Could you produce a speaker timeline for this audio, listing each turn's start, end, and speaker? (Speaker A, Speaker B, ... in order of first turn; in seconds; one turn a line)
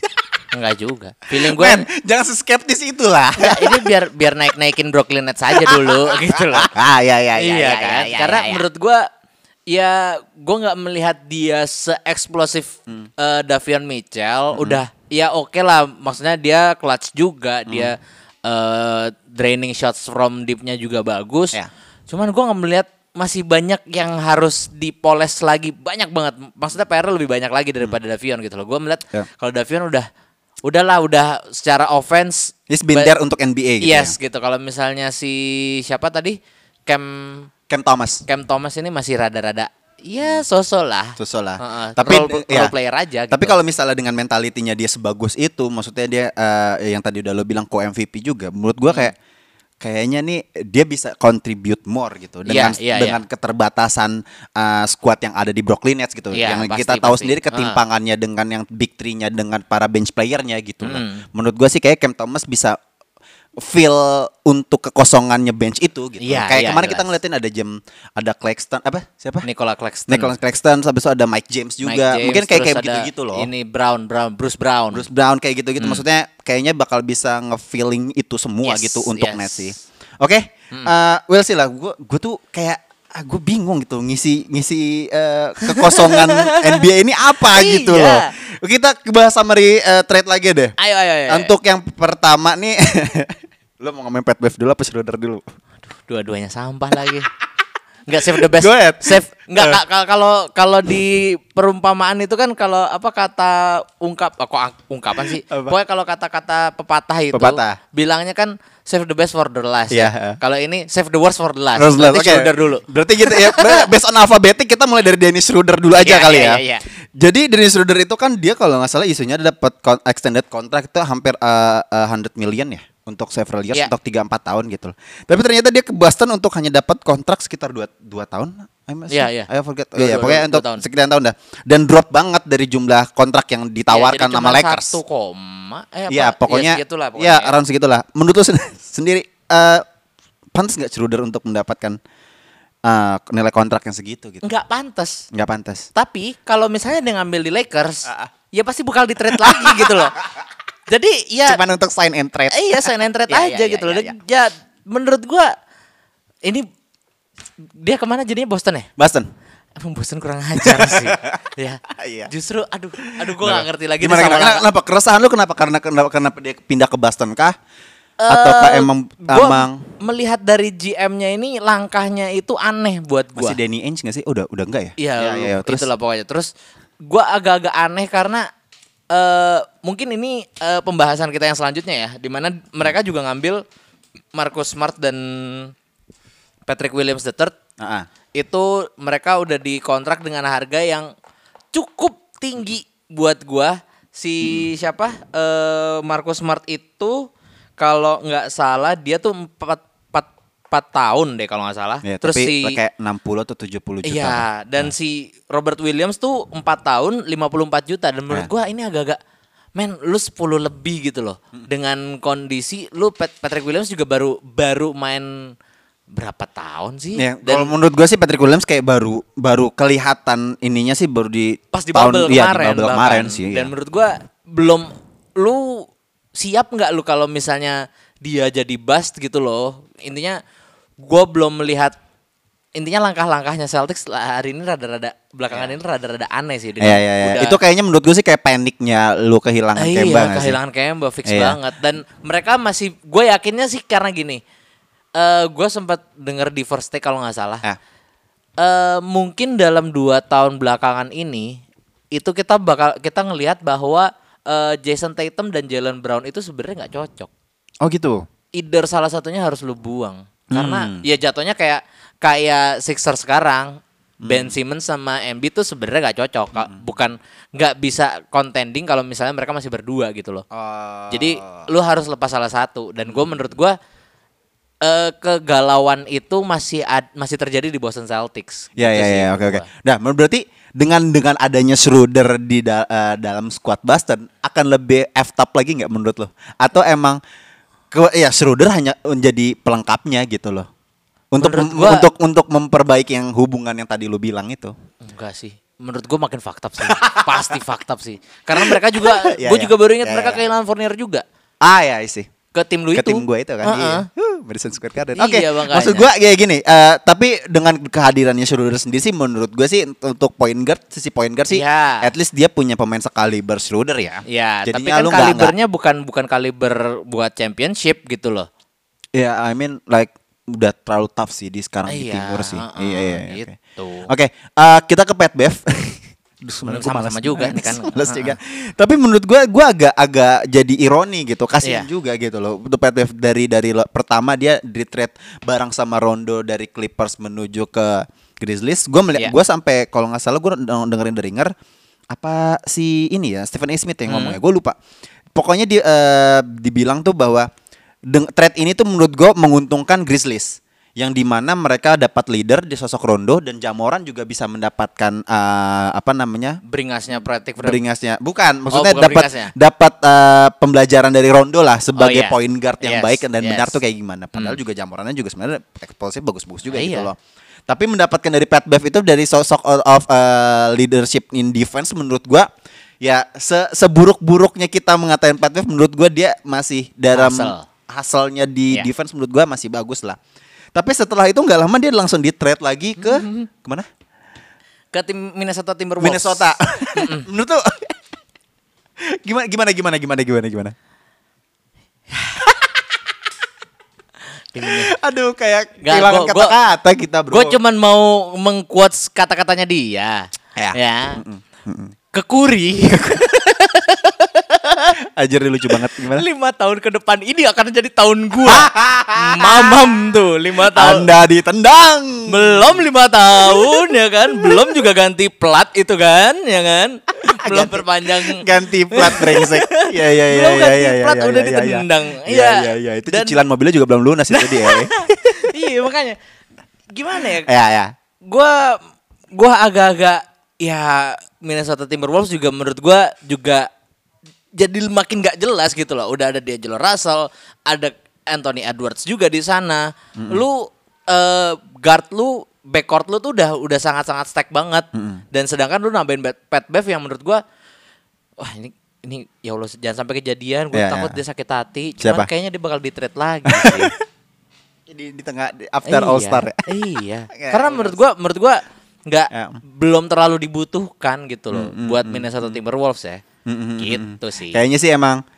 Speaker A: 0.5-1.9
Speaker B: 1.4-3.9
Speaker A: 3.4-6.7
Speaker B: 5.5-8.7
Speaker A: 7.4-9.1
Speaker A: 9.7-21.6
Speaker B: 14.5-14.8
Speaker A: 22.1-30.1
Speaker A: 30.6-33.1
Speaker B: 32.7-34.1
Speaker A: 33.8-37.5
Speaker B: 37.7-38.2
Speaker A: 38.3-43.6
Speaker B: 41.2-42.7
Speaker B: 43.3-49.1
Speaker B: 49.8-62.8
Speaker A: 52.5-53.2
Speaker A: 56.3-57.8
Speaker A: 60.8-61.2
Speaker B: 63.6-69.5
Speaker A: 66.2-67.1
Speaker A: 69.4-70.3
Speaker B: 70.1-73.5
Speaker A: 71.8-75.1
Speaker B: 74.9-90.8
Speaker A: 78.6-79.7
Speaker A: 85.6-86.8
Speaker A: 87.5-88.3
Speaker A: 90.8-91.5
Speaker B: 91.3-95.5
Speaker A: 95.9-97.3
Speaker A: 98.1-113.9
Speaker B: 98.2-99.8
Speaker B: 105.5-105.8
Speaker B: 107.3-107.8
Speaker B: 109.9-110.4
Speaker B: 111.8-116.6
Speaker A: 116.0-116.9
Speaker B: 117.2-135.0
Speaker A: 129.1-130.8
Speaker A: 133.9-137.6
Speaker B: 136.1-139.8
Speaker B: 140.5-142.0
Speaker B: 142.8-144.4
Speaker A: 144.4-145.2
Speaker B: 145.3-145.9
Speaker A: 145.9-150.2
Speaker B: 149.4-150.1
Speaker A: 150.9-151.6
Speaker B: 151.4-154.2
Speaker A: 152.5-155.5
Speaker A: 157.8-158.9
Speaker B: 159.0-159.3
Speaker A: 159.8-164.7
Speaker B: 160.6-161.4
Speaker B: 161.9-162.3
Speaker B: 163.2-167.6
Speaker A: 168.2-173.6
Speaker B: 168.3-169.9
Speaker B: 173.4-175.9
Speaker A: 175.0-176.5
Speaker A: 177.0-178.5
Speaker A: 179.1-183.6
Speaker A: 184.3-185.7
Speaker A: 186.7-187.6
Speaker B: 187.8-188.1
Speaker A: 188.3-191.1
Speaker A: 191.7-197.3
Speaker A: 197.8-202.8
Speaker B: 202.0-204.9
Speaker A: 204.0-209.2
Speaker A: 209.8-215.5
Speaker A: 216.1-217.7
Speaker B: 217.2-223.7
Speaker A: 221.7-230.4
Speaker A: 231.0-231.9
Speaker A: 232.8-237.6
Speaker B: 236.8-240.6
Speaker A: 239.8-244.4
Speaker B: 241.3-241.6
Speaker A: 245.2-247.6
Speaker A: 248.6-251.6
Speaker A: 252.1-257.3
Speaker B: 257.8-258.2
Speaker A: 258.6-270.4
Speaker B: 260.5-261.1
Speaker B: 264.2-264.6
Speaker B: 270.5-271.7
Speaker A: 271.1-273.8
Speaker B: 273.1-273.4
Speaker A: 274.8-279.7
Speaker B: 278.8-287.2
Speaker B: 287.9-290.7
Speaker B: 291.3-294.7
Speaker A: 291.4-292.1
Speaker A: 295.0-301.2
Speaker B: 296.9-297.5
Speaker B: 298.5-300.4
Speaker B: 301.6-302.3
Speaker A: 302.5-304.1
Speaker B: 302.9-315.5
Speaker A: 305.2-306.1
Speaker A: 311.5-312.1
Speaker A: 314.3-318.5
Speaker B: 319.1-323.6
Speaker A: 321.9-324.1
Speaker B: 324.1-341.5
Speaker A: 326.6-328.4
Speaker B: 342.1-344.8
Speaker A: 344.1-344.4
Speaker B: 345.4-347.5
Speaker B: 348.1-356.6
Speaker A: 356.6-357.8
Speaker B: 357.6-367.2
Speaker A: 358.7-359.5
Speaker A: 362.0-363.8
Speaker A: 366.7-367.1
Speaker B: 367.7-372.5
Speaker B: 373.0-380.2
Speaker A: 377.1-377.7
Speaker B: 380.7-383.9
Speaker A: 383.0-383.5
Speaker A: 384.9-387.3
Speaker B: 386.0-388.0
Speaker B: 389.0-390.7
Speaker A: 392.1-392.4
Speaker B: 392.4-392.8
Speaker A: 394.5-394.9
Speaker B: 394.6-397.6
Speaker A: 395.8-396.6
Speaker A: 397.3-401.2
Speaker B: 400.6-401.9
Speaker A: 402.1-405.0
Speaker B: 405.0-406.2
Speaker A: 405.9-411.1
Speaker B: 408.4-409.9
Speaker B: 410.7-412.8
Speaker A: 412.3-423.4
Speaker B: 413.4-413.8
Speaker B: 417.3-425.6
Speaker A: 424.3-426.2
Speaker A: 426.9-427.5
Speaker B: 427.4-427.9
Speaker A: 428.3-428.8
Speaker A: 429.3-433.7
Speaker A: 434.6-447.4
Speaker B: 440.2-440.4
Speaker B: 444.9-445.2
Speaker A: 448.4-453.9
Speaker B: 450.7-451.1
Speaker B: 452.0-452.3
Speaker B: 453.5-454.0
Speaker B: 454.9-456.7
Speaker A: 455.9-463.2
Speaker B: 457.3-458.0
Speaker B: 459.3-459.6
Speaker B: 461.5-462.6
Speaker B: 463.5-465.2
Speaker A: 463.8-464.6